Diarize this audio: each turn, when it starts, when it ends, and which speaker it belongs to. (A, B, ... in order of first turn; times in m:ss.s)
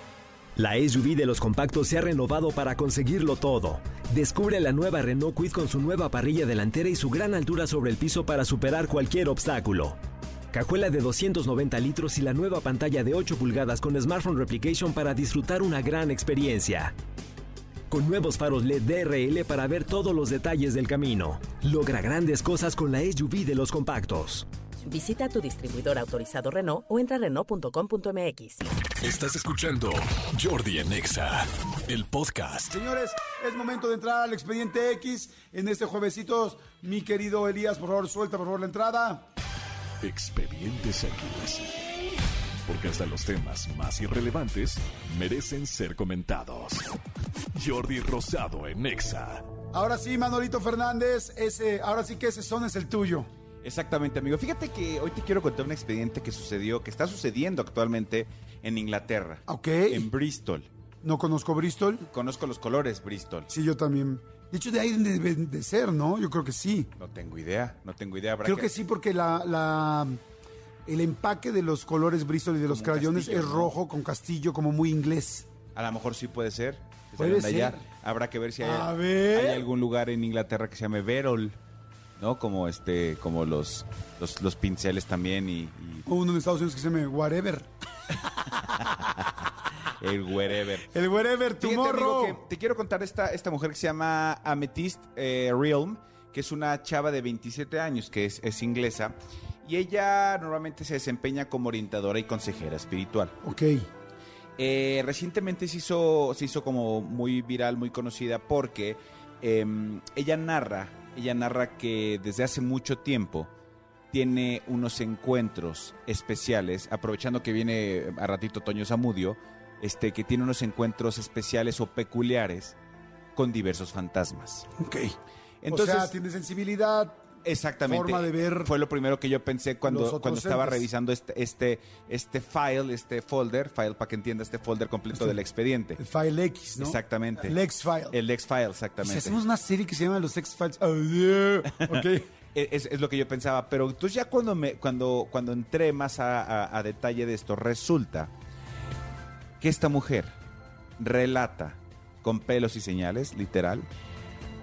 0:00.6-0:10.0 A
0:10.5-0:16.9 A
0:17.9-0:24.5 A
0:24.9-0:28.7 B
0:29.0-0:32.8 C
0:32.7-0:39.2 D
0:40.0-0:41.9 C
0:42.7-0:46.9 C
0:47.5-0:49.4 C
0:49.7-0:53.3 D
0:53.6-1:00.7 E
0:59.4-1:00.1 D
1:01.0-1:02.1 D
1:02.1-1:03.5 E
1:03.5-1:06.9 D
1:07.0-1:08.7 E
1:08.4-1:10.2 D
1:10.8-1:15.5 D
1:12.6-1:13.8 E
1:15.7-1:21.6 E
1:17.2-1:17.8 D
1:18.6-1:19.7 D
1:22.2-1:26.1 E
1:26.0-1:27.7 D
1:28.8-1:29.2 E
1:30.0-1:30.9 E
1:30.9-1:32.4 D
1:31.6-1:43.4 E
1:43.4-1:43.8 D
1:44.6-1:53.5 E
1:54.1-2:02.8 E
2:03.3-2:04.7 E
2:04.8-2:05.1 D
2:05.6-2:06.2 E
2:05.7-2:07.2 D
2:07.4-2:16.0 E
2:07.8-2:08.7 D
2:09.8-2:10.9 D
2:15.1-2:15.4 D
2:16.0-2:18.2 D
2:16.8-2:17.6 E
2:18.1-2:19.4 E
2:19.0-2:22.3 D
2:21.7-2:28.3 E
2:29.6-2:30.3 E
2:31.0-2:33.9 E